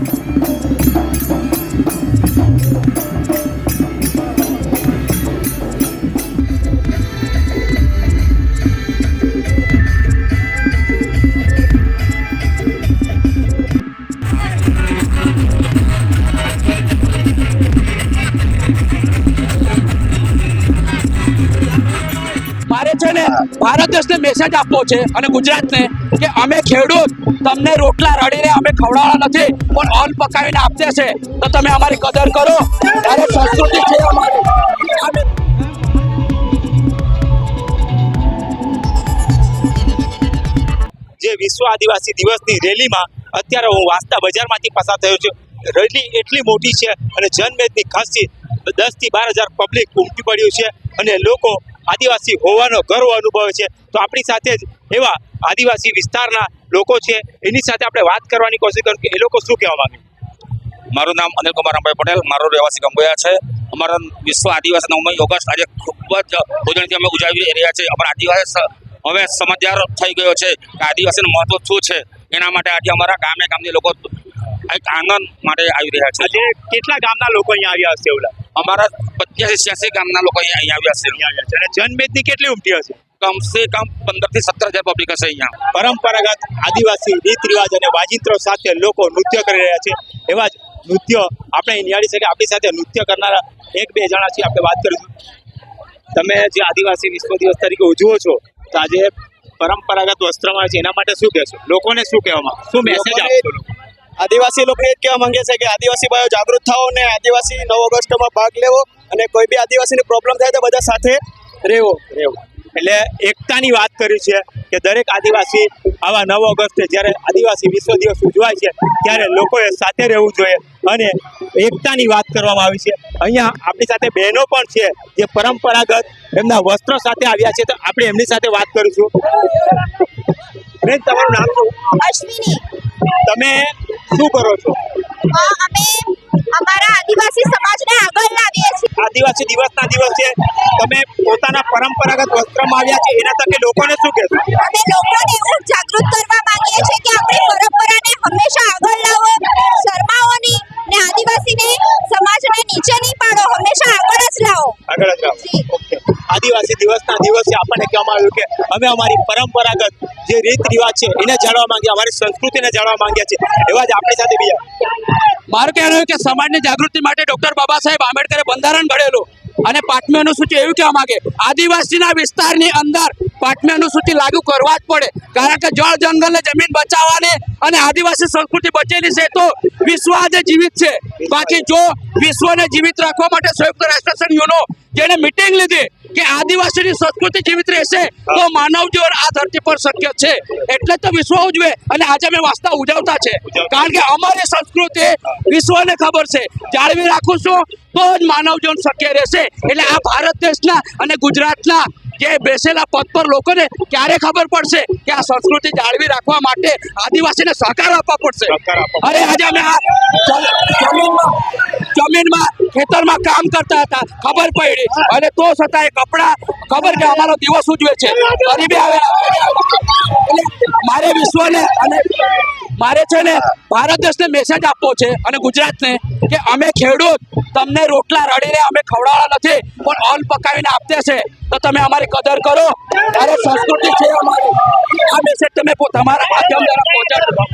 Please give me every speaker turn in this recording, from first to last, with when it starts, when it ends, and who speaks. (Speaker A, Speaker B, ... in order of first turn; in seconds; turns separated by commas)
Speaker A: 22.7-35.2, Speaker B: 41.2-60.0, Speaker C: 60.9-74.1, Speaker C: 74.7-76.3, Speaker B: 76.2-78.4, Speaker C: 78.5-81.2, Speaker B: 81.1-83.0, Speaker C: 83.2-85.5, Speaker B: 85.7-95.1, Speaker B: 96.1-103.7, Speaker D: 102.8-103.4, Speaker D: 104.2-112.1, Speaker B: 112.3-129.5, Speaker B: 130.8-131.8, Speaker E: 132.0-132.6, Speaker B: 133.2-134.8, Speaker E: 135.3-138.9, Speaker B: 139.0-144.5, Speaker E: 144.5-154.8, Speaker B: 154.9-164.6, Speaker E: 155.4-155.6, Speaker A: 165.5-211.3, Speaker B: 181.2-181.6, Speaker B: 193.4-193.9, Speaker B: 208.5-209.2, Speaker A: 211.8-237.4